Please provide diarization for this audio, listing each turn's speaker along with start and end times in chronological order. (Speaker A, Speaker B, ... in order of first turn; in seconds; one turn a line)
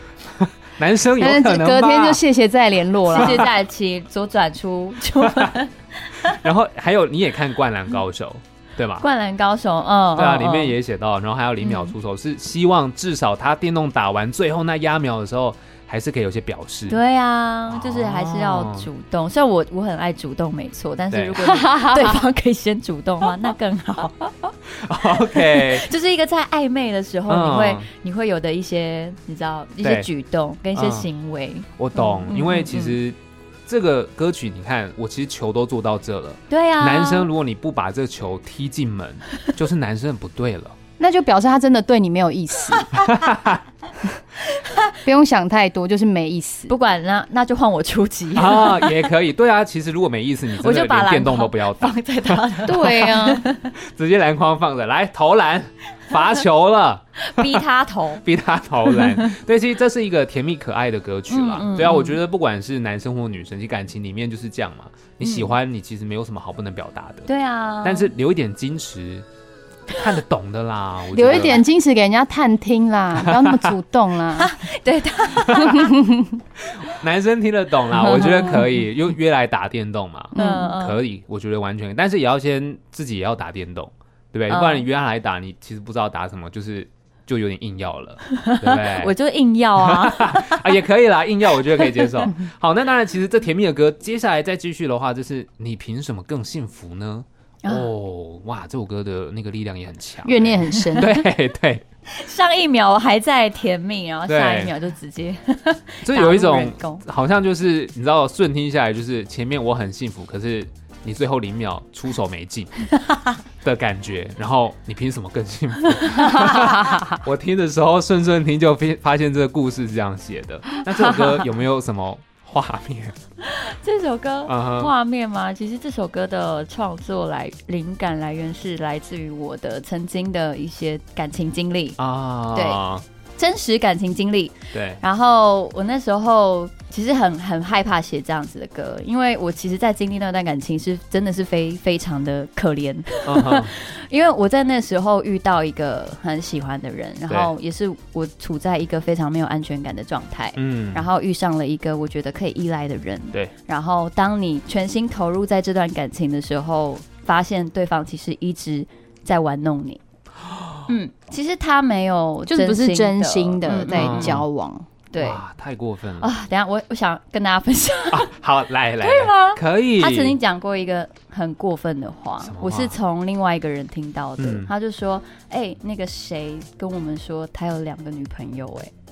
Speaker A: 0.2-2.2
Speaker B: 1.2-3.5
Speaker C: 3.1-6.4
Speaker A: 3.2-3.5
Speaker A: 5.2-5.5
Speaker A: 6.2-9.1
Speaker C: 9.0-10.7
Speaker A: 10.2-17.0
Speaker C: 11.6-11.9
Speaker C: 16.9-24.5
Speaker A: 17.7-18.9
Speaker A: 21.1-21.4
Speaker B: 21.4-22.2
Speaker A: 24.7-25.9
Speaker C: 25.1-33.0
Speaker A: 27.3-27.9
Speaker A: 29.8-30.1
Speaker A: 30.7-31.1
Speaker A: 31.8-40.8
Speaker C: 36.5-37.3
Speaker B: 41.0-42.9
Speaker C: 42.8-43.3
Speaker A: 42.9-43.6
Speaker C: 44.5-44.9
Speaker B: 45.0-46.7
Speaker C: 46.7-49.0
Speaker A: 48.4-52.5
Speaker C: 50.5-53.7
Speaker B: 52.6-53.5
Speaker A: 53.7-57.6
Speaker C: 57.2-58.2
Speaker A: 58.2-67.3
Speaker C: 58.9-59.4
Speaker C: 61.3-62.2
Speaker C: 65.2-65.5
Speaker C: 67.2-68.1
Speaker A: 67.8-69.2
Speaker A: 69.9-71.6
Speaker B: 71.1-74.6
Speaker A: 73.2-73.7
Speaker C: 74.4-75.9
Speaker A: 75.5-75.8
Speaker B: 75.7-76.4
Speaker A: 76.6-89.1
Speaker B: 78.1-78.6
Speaker C: 80.3-81.0
Speaker B: 80.4-80.7
Speaker C: 84.5-84.8
Speaker C: 88.3-90.7
Speaker A: 89.8-101.8
Speaker C: 91.7-92.3
Speaker C: 97.6-97.9
Speaker B: 100.2-101.3
Speaker C: 100.8-101.0
Speaker C: 102.1-107.0
Speaker A: 104.3-104.7
Speaker A: 106.0-112.9
Speaker A: 113.6-123.2
Speaker C: 123.4-132.0
Speaker A: 124.5-124.9
Speaker A: 132.0-133.0
Speaker C: 132.5-132.8
Speaker C: 133.4-160.0
Speaker A: 134.7-135.0
Speaker A: 143.2-143.7
Speaker A: 150.6-151.1
Speaker A: 160.4-160.9
Speaker C: 160.9-164.4
Speaker B: 162.5-164.9
Speaker A: 163.9-164.4
Speaker C: 165.1-165.4
Speaker A: 165.2-166.3
Speaker C: 166.2-168.3
Speaker A: 168.1-170.4
Speaker C: 169.0-178.9
Speaker A: 172.4-173.0
Speaker A: 174.4-174.7